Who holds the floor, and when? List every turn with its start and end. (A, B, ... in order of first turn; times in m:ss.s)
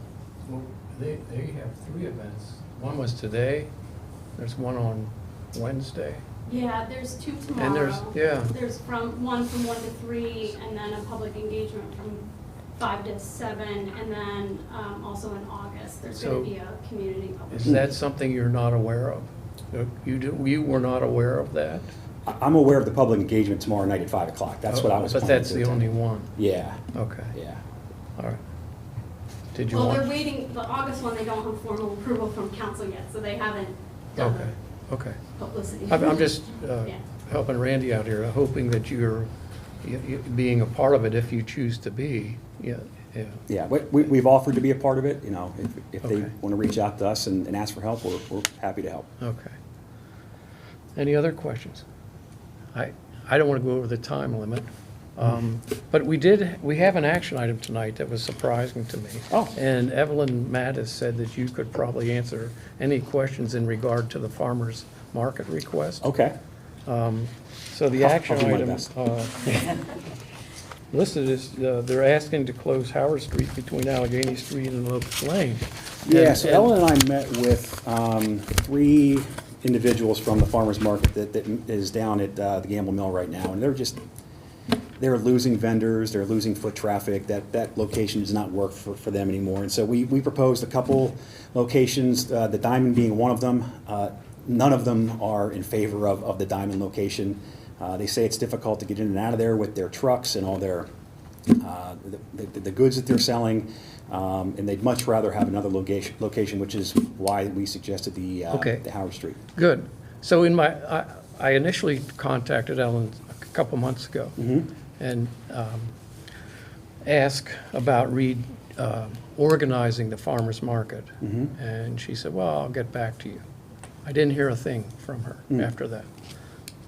0:00.4-0:03.7 A
0:04.4-0:06.2 A
0:06.4-0:12.2 B
0:07.6-0:08.5 A
0:12.8-0:17.8 B
0:16.1-0:16.5 A
0:17.5-0:21.9 A
0:22.2-0:26.8 C
0:24.7-0:26.3 A
0:26.9-0:27.3 A
0:27.3-0:27.6 C
0:29.5-0:30.0 A
0:29.7-0:34.5 B
0:34.2-0:35.2 A
0:35.4-0:36.3 B
0:35.9-0:39.3 A
0:39.8-0:43.4 A
0:43.5-0:49.1 C
0:49.2-0:49.5 A
0:51.0-0:51.8 A
0:52.7-1:06.0 A
1:06.0-1:06.4 C
1:06.8-1:09.8 A
1:07.9-1:08.9 C
1:10.9-1:16.7 A
1:16.0-1:24.0 C
1:25.0-1:40.9 C
1:41.6-1:49.4 C
1:48.5-1:48.8 A
1:49.5-1:54.4 A
1:54.4-1:54.7 C
1:55.0-1:55.9 A
1:57.0-2:03.4 A
2:01.2-2:01.5 C
2:04.0-2:06.0 A